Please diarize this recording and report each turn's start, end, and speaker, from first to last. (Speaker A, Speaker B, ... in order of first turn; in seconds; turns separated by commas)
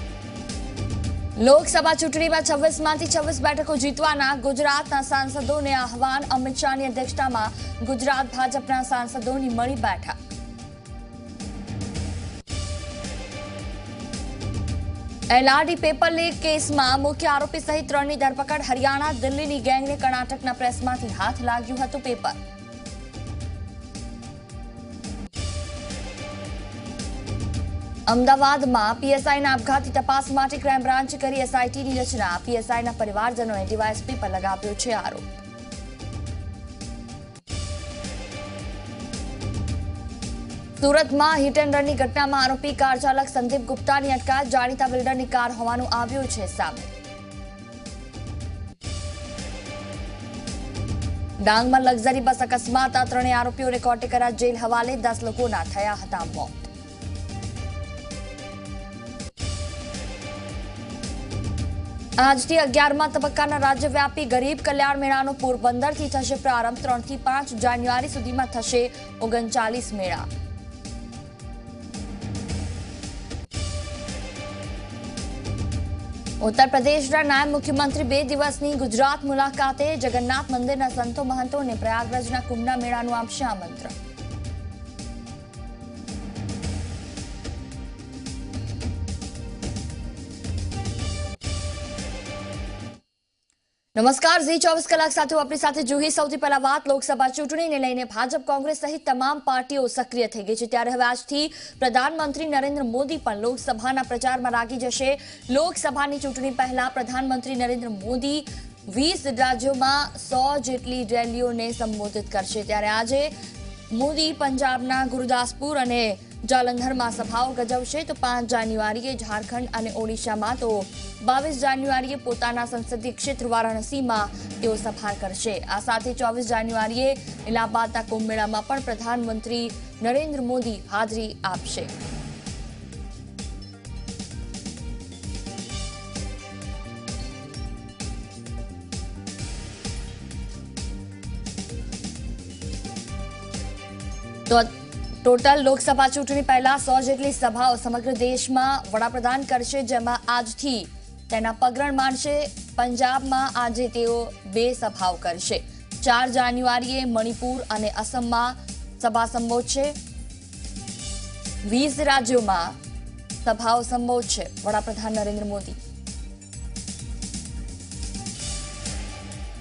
Speaker A: 1.4-10.2, Speaker A: 15.3-22.4, Speaker A: 28.1-35.3, Speaker A: 40.8-46.9, Speaker A: 51.4-56.7, Speaker A: 62.2-70.3, Speaker A: 76.4-83.9, Speaker A: 94.0-113.3, Speaker A: 113.9-131.9, Speaker A: 145.2-159.9, Speaker A: 161.7-162.8, Speaker A: 163.4-165.8